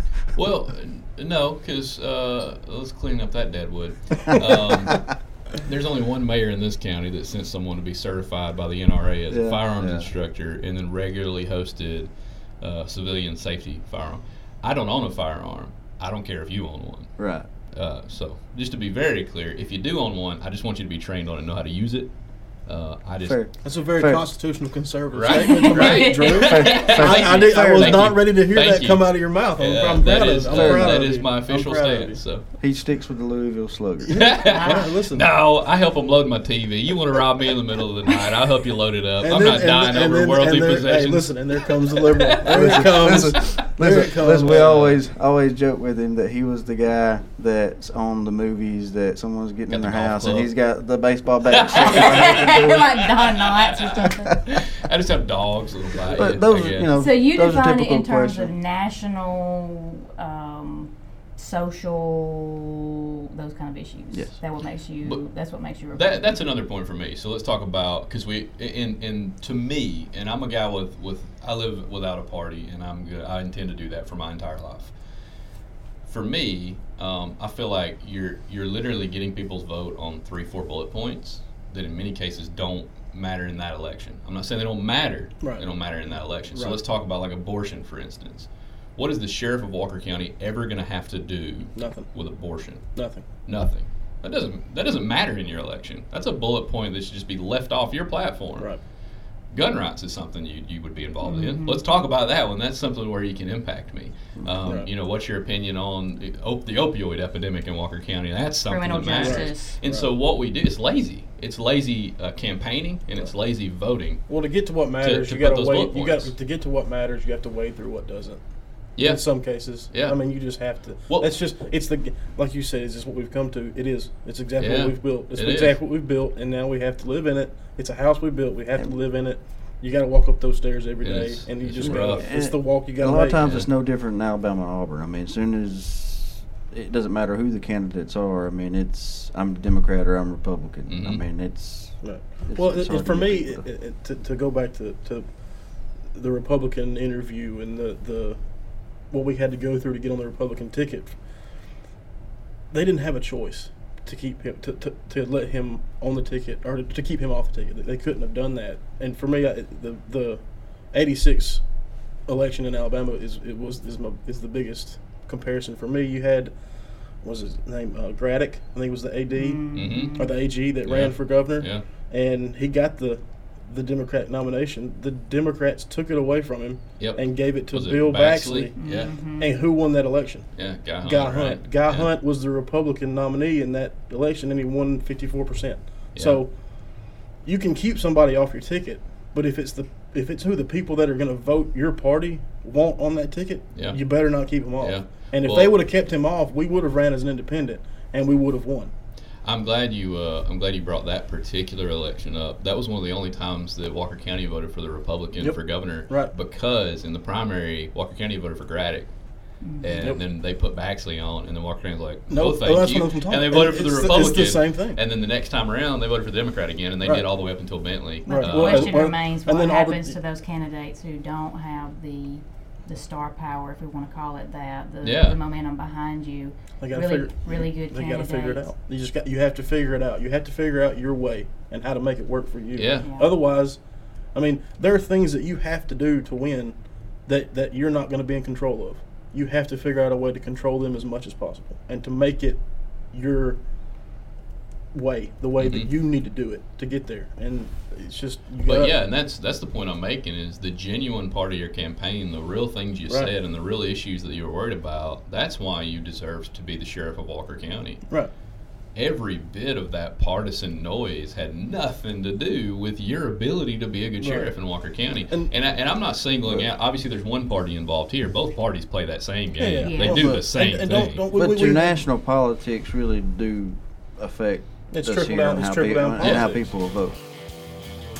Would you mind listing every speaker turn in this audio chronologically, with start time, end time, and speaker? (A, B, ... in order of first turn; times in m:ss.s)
0:00.3-0:17.1 A
0:09.3-0:10.1 B
0:17.2-0:17.5 B
0:17.7-0:22.1 A
0:22.6-0:23.4 A
0:23.2-0:24.2 B
0:23.6-0:32.2 C
0:25.1-0:32.4 A
0:25.3-0:26.8 D
0:26.4-0:28.0 B
0:30.5-0:31.0 B
0:32.6-0:34.2 B
0:34.0-0:35.3 C
0:34.2-0:42.3 A
0:34.5-0:34.9 D
0:39.2-0:44.8 C
0:42.4-0:52.9 B
0:49.7-0:50.5 A
0:51.5-0:56.9 A
0:51.7-0:54.4 D
0:56.1-0:58.5 B
0:56.9-1:02.8 D
1:03.3-1:06.4 D
1:05.9-1:14.9 A
1:16.0-1:32.8 A
1:25.4-1:25.6 C
1:26.5-1:26.8 C
1:31.8-1:32.1 C
1:32.9-1:33.2 C
1:33.4-1:38.7 A
1:39.5-1:54.2 A
1:41.2-1:41.8 D
1:44.6-1:44.9 C
1:48.7-1:49.8 D
1:49.2-1:50.1 C
1:54.3-1:58.4 C
1:55.0-1:56.3 A
1:59.0-1:59.2 A
1:59.0-2:13.4 C
1:59.9-2:00.2 A
2:01.1-2:01.3 A
2:04.6-2:05.8 A
2:11.0-2:12.2 A
2:11.8-2:23.6 B
2:13.4-2:13.7 A
2:20.9-2:21.2 A
2:22.0-2:25.3 C
2:26.1-2:28.4 C
2:29.1-2:31.2 C
2:32.7-2:41.6 C
2:42.3-2:46.5 C
2:47.2-2:49.6 C
2:49.3-2:50.3 D
2:49.7-2:50.2 A
2:50.2-3:00.5 C
2:50.8-2:51.8 A
2:57.0-2:59.2 A
2:58.8-2:59.5 D
3:00.5-3:02.1 A
3:01.0-3:06.5 C
3:06.1-3:06.4 A
3:07.4-3:18.9 C
3:13.7-3:14.0 A
3:14.8-3:15.8 A
3:19.4-3:29.1 A
3:25.4-3:26.3 C
3:29.6-3:30.0 D
3:29.8-3:39.0 A
3:32.3-3:35.0 C
3:38.2-3:48.7 D
3:38.3-3:40.1 C
3:45.0-3:45.4 A
3:46.8-3:53.8 C
3:52.7-3:53.1 A
3:53.0-3:53.3 D
3:54.3-4:02.6 C
4:03.1-4:03.6 C
4:04.9-4:08.9 C
4:05.6-4:05.9 A
4:08.6-4:18.0 A
4:18.9-4:31.2 A
4:24.2-4:24.5 C
4:29.6-4:32.0 C
4:29.8-4:30.3 D
4:31.3-4:37.2 B
4:34.9-4:36.6 C
4:36.2-4:36.5 A